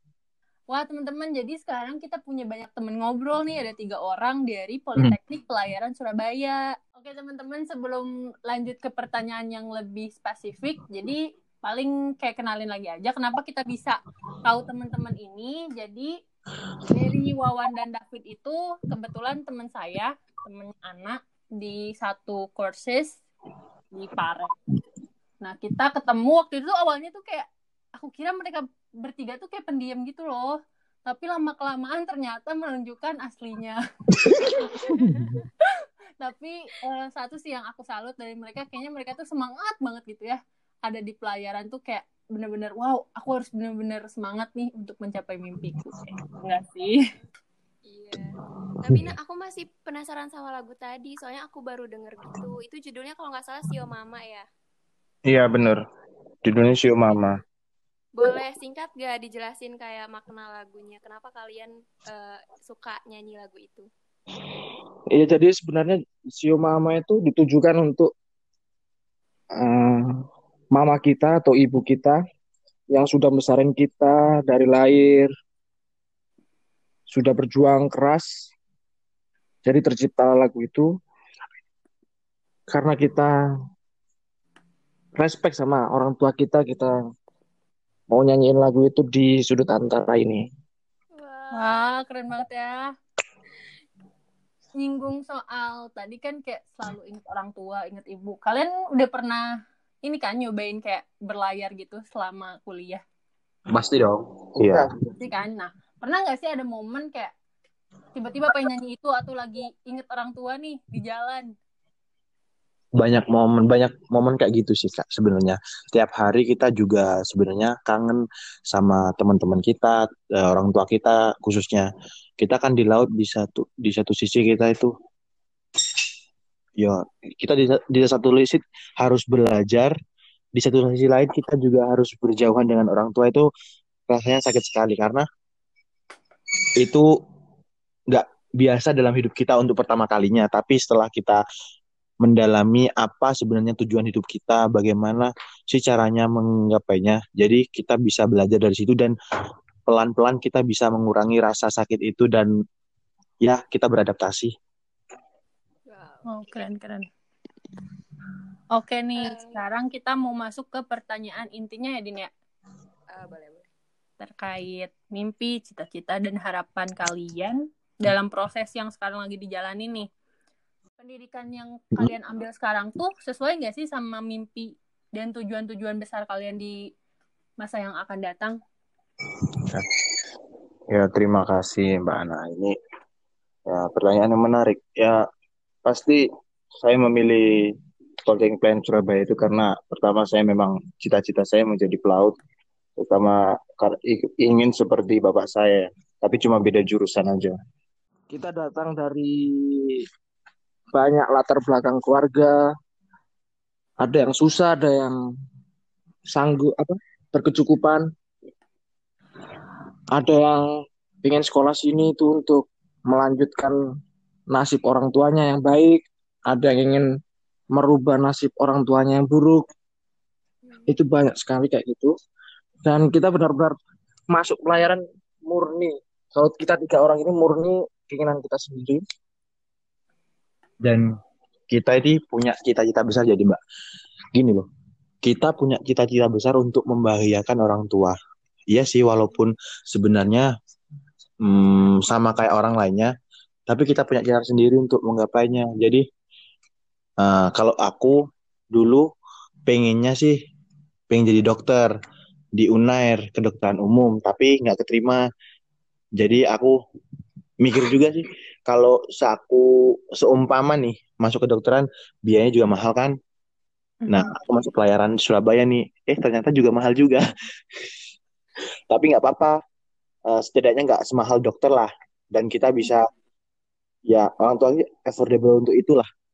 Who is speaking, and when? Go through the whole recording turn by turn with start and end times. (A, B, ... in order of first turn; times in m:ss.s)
0:00.7-0:16.2 A
0:16.9-0:23.2 A
0:23.9-0:24.5 A
0:25.4-0:47.0 A
0:34.9-0:35.4 B
0:47.9-0:54.5 B
0:55.3-0:55.8 C
0:56.4-0:57.4 C
0:58.2-1:03.9 B
1:05.1-1:08.1 D
1:09.6-1:12.2 D
1:12.9-1:15.3 D
1:17.1-1:18.5 D
1:19.6-1:20.9 D
1:22.7-1:23.3 D
1:25.2-1:27.0 D
1:28.1-1:30.5 D
1:31.1-1:32.0 B
1:31.5-1:32.9 A
1:34.8-1:43.0 A
1:43.7-1:44.8 E
1:45.2-1:47.3 A
1:48.2-1:51.5 A
1:53.0-2:04.9 E
2:06.8-2:09.9 E
2:10.6-2:13.5 E
2:14.1-2:15.3 E
2:16.8-2:17.1 E
2:18.1-2:21.4 E
2:22.2-2:29.1 E
2:29.9-2:32.5 E
2:33.4-2:34.5 E
2:35.9-2:36.6 B
2:36.3-2:37.1 A
2:38.7-2:42.3 A
2:39.2-2:39.6 B
2:43.1-2:43.7 B
2:44.2-2:50.1 A
2:51.0-2:56.9 A
2:57.6-2:58.6 A
3:00.9-3:02.8 C
3:03.7-3:05.2 C
3:05.8-3:06.3 C
3:06.8-3:07.7 C
3:08.3-3:12.4 C
3:13.0-3:17.6 C
3:18.3-3:20.0 D
3:20.9-3:22.6 D
3:24.0-3:25.2 D
3:26.3-3:28.1 D
3:30.1-3:33.8 D
3:34.5-3:37.0 D
3:37.7-3:39.7 D
3:40.6-3:40.9 B
3:40.9-3:42.1 D
3:42.8-3:43.8 D
3:44.3-3:49.0 D
3:50.8-3:51.1 E
3:51.7-3:53.6 E
3:54.3-3:54.7 E
3:55.2-3:58.2 E
3:58.7-4:00.5 E
4:01.4-4:03.1 E
4:03.7-4:06.0 E
4:07.2-4:08.2 E
4:08.7-4:09.1 E
4:09.7-4:10.4 E
4:11.1-4:11.9 E
4:12.6-4:15.2 E
4:16.2-4:16.8 E
4:17.6-4:23.2 E
4:24.1-4:24.3 A
4:24.1-4:27.2 E
4:28.9-4:29.6 E
4:30.3-4:33.1 E
4:34.1-4:36.1 E